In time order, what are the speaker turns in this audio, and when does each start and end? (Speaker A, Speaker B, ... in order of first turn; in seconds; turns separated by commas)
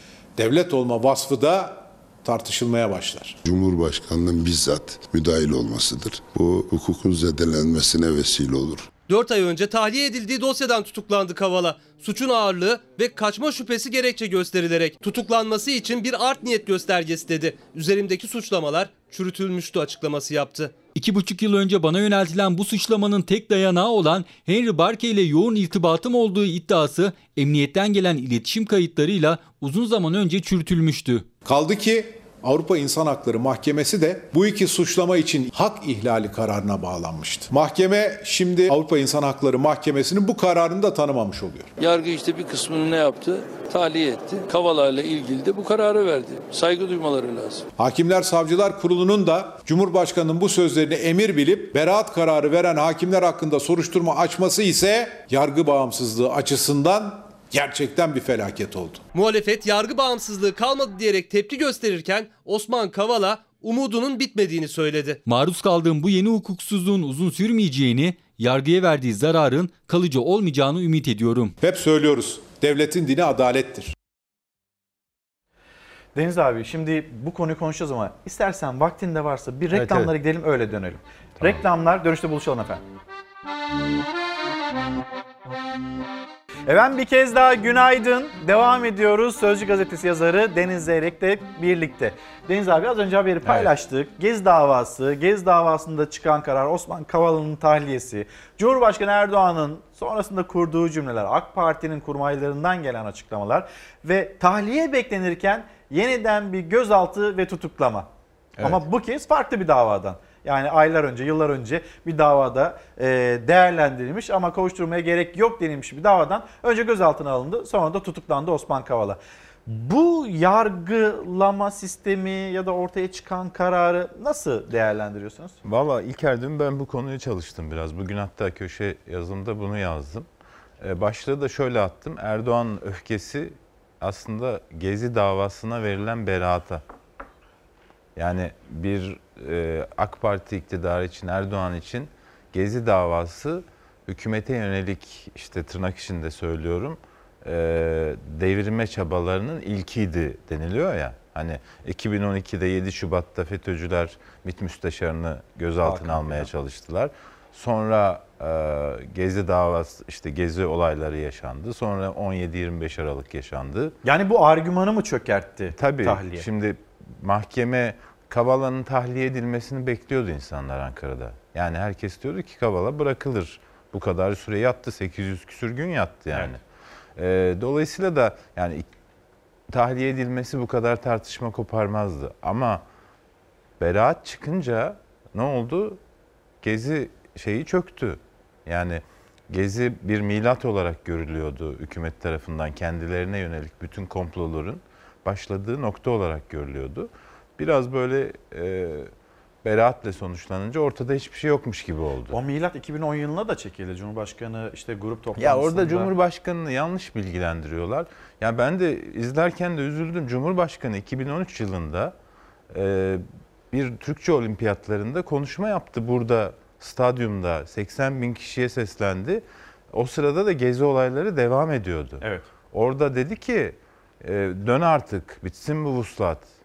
Speaker A: 0.4-3.4, Speaker B: 3.4-8.9, Speaker C: 9.1-20.8, Speaker D: 20.9-31.3, Speaker A: 31.4-41.7, Speaker E: 41.8-47.6, Speaker A: 47.8-59.0, Speaker C: 59.1-65.2, Speaker D: 65.2-71.5, Speaker A: 71.6-73.9, Speaker F: 76.1-82.8, Speaker G: 79.7-80.1, Speaker F: 86.7-108.1, Speaker G: 93.4-93.7, Speaker F: 108.6-125.6, Speaker G: 125.6-130.2, Speaker G: 130.8-136.8, Speaker G: 138.2-163.9, Speaker F: 155.8-156.5, Speaker F: 164.0-166.4, Speaker G: 165.7-176.6, Speaker G: 177.2-178.8, Speaker G: 179.7-182.8, Speaker G: 183.8-186.0, Speaker G: 186.6-199.1, Speaker G: 199.6-202.4, Speaker F: 202.3-206.1, Speaker G: 205.3-212.1, Speaker G: 212.7-226.5, Speaker F: 222.2-222.5